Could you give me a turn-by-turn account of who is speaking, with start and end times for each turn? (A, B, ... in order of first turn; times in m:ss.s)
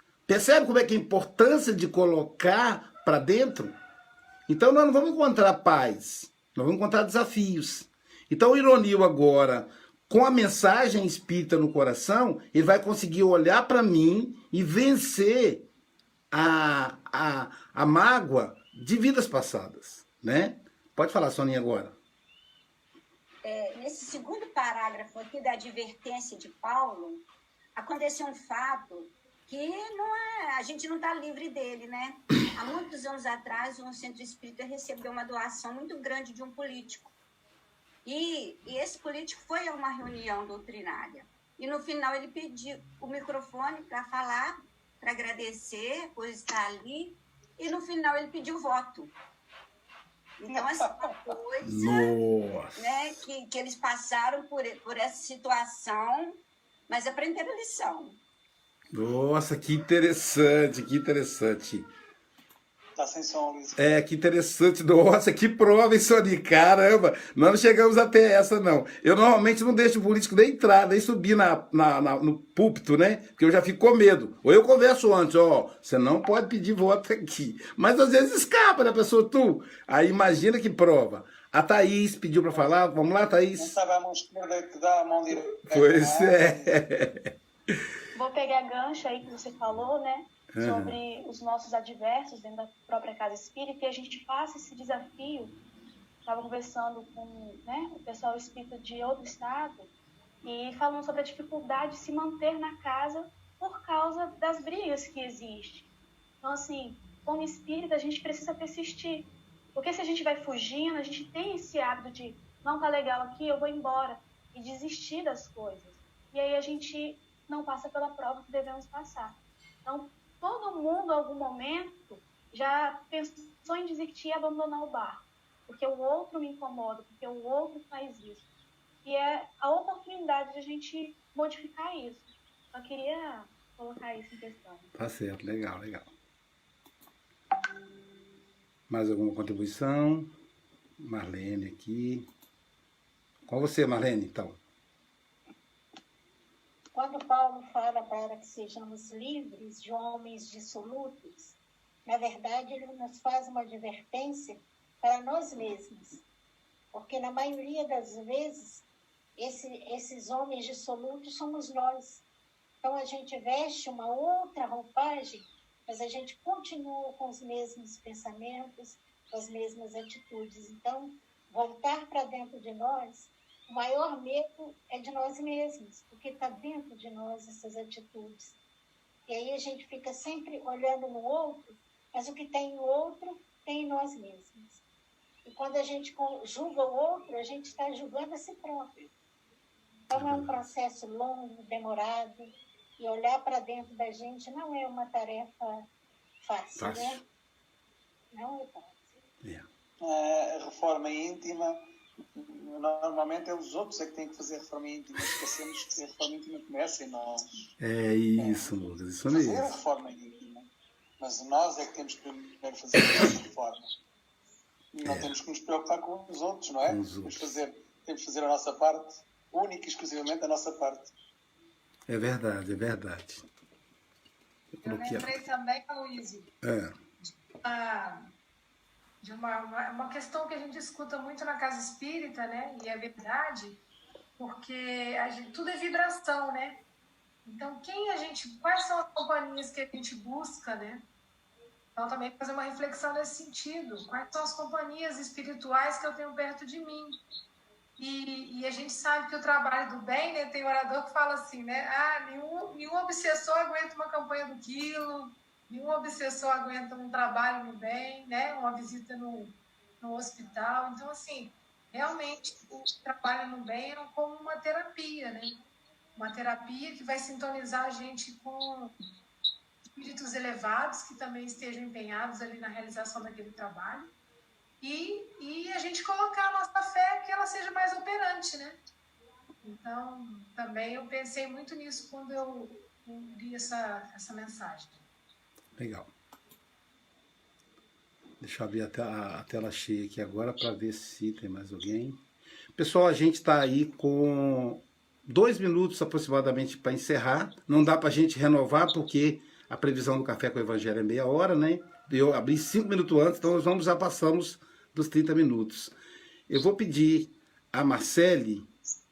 0:00.3-0:03.8 A
0:04.5-0:15.6 A
0:16.3-0:22.0 A
0:23.4-0:37.1 B
0:38.0-0:49.1 B
0:50.4-0:52.1 B
0:51.6-0:53.2 A
0:52.8-0:58.2 B
0:58.9-1:01.9 A
1:03.0-1:03.8 C
1:03.8-1:23.8 A
1:23.6-1:26.8 C
1:25.7-1:27.3 A
1:28.1-1:35.6 D
1:30.5-1:31.0 A
1:36.2-1:39.9 D
1:40.4-1:45.9 D
1:46.4-2:08.5 D
2:09.0-2:14.9 D
2:14.9-2:16.1 A
2:18.9-2:20.3 A
2:21.0-2:22.3 A
2:23.4-2:24.6 A
2:26.9-2:36.2 E
2:36.9-2:38.8 E
2:39.4-2:42.2 E
2:42.8-2:58.6 E
2:59.3-3:04.8 E
3:05.4-3:09.0 E
3:10.1-3:15.9 E
3:10.1-3:10.6 A
3:16.4-3:17.2 E
3:16.8-3:17.2 A
3:18.3-3:19.1 E
3:20.0-3:27.7 C
3:27.8-3:29.8 A
3:28.4-3:28.7 C
3:29.3-3:30.7 C
3:31.2-3:33.9 C
3:34.9-3:41.1 C
3:35.0-3:35.3 A
3:36.8-3:37.5 A
3:42.1-3:43.4 A
3:44.8-3:46.5 F
3:44.8-3:45.3 A
3:46.6-3:47.0 A
3:47.2-3:48.3 F
3:49.2-3:53.8 F
3:54.4-3:56.8 F
3:57.4-4:01.0 F
4:02.0-4:07.2 F
4:08.0-4:25.6 F
4:26.2-4:28.9 F
4:29.9-4:34.1 F
4:34.8-4:38.8 F
4:39.6-4:45.0 F
4:45.8-4:46.1 A
4:48.4-4:52.2 A
4:52.8-5:05.9 A
5:06.5-5:08.7 A